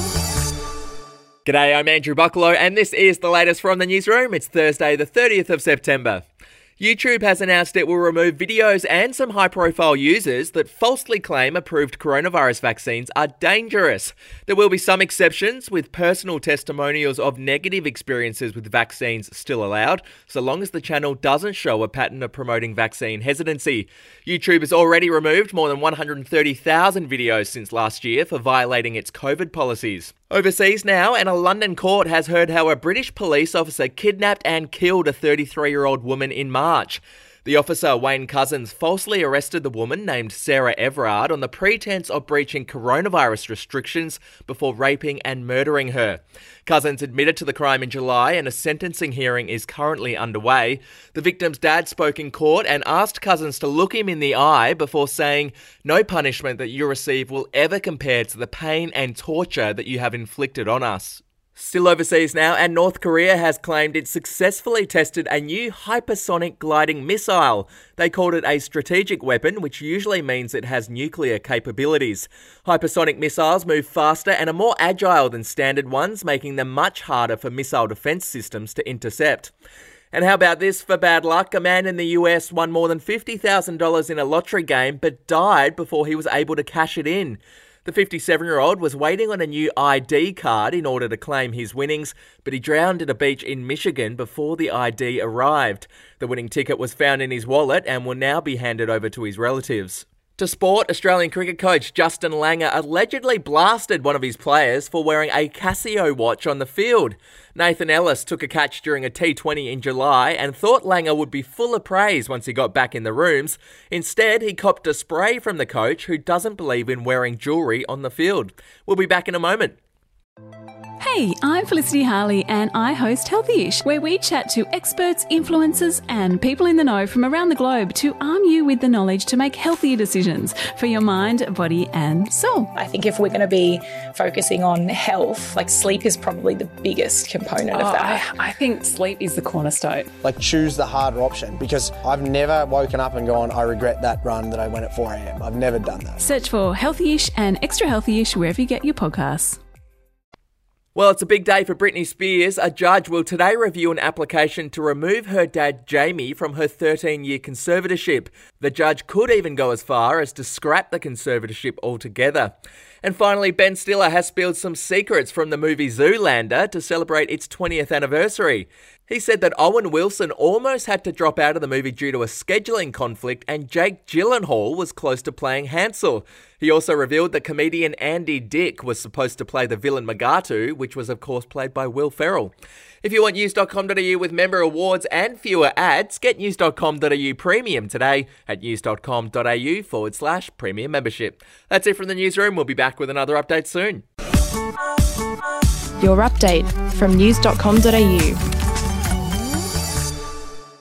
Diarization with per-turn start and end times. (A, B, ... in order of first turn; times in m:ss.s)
0:01.4-0:06.2 A
0:06.8-1:19.5 A
1:20.1-1:59.8 A
2:01.0-2:12.7 B
2:13.0-2:18.2 C
2:17.7-2:20.1 B
2:20.2-2:26.2 D
2:26.2-2:29.6 B
2:30.9-3:14.0 A
3:16.0-3:18.4 E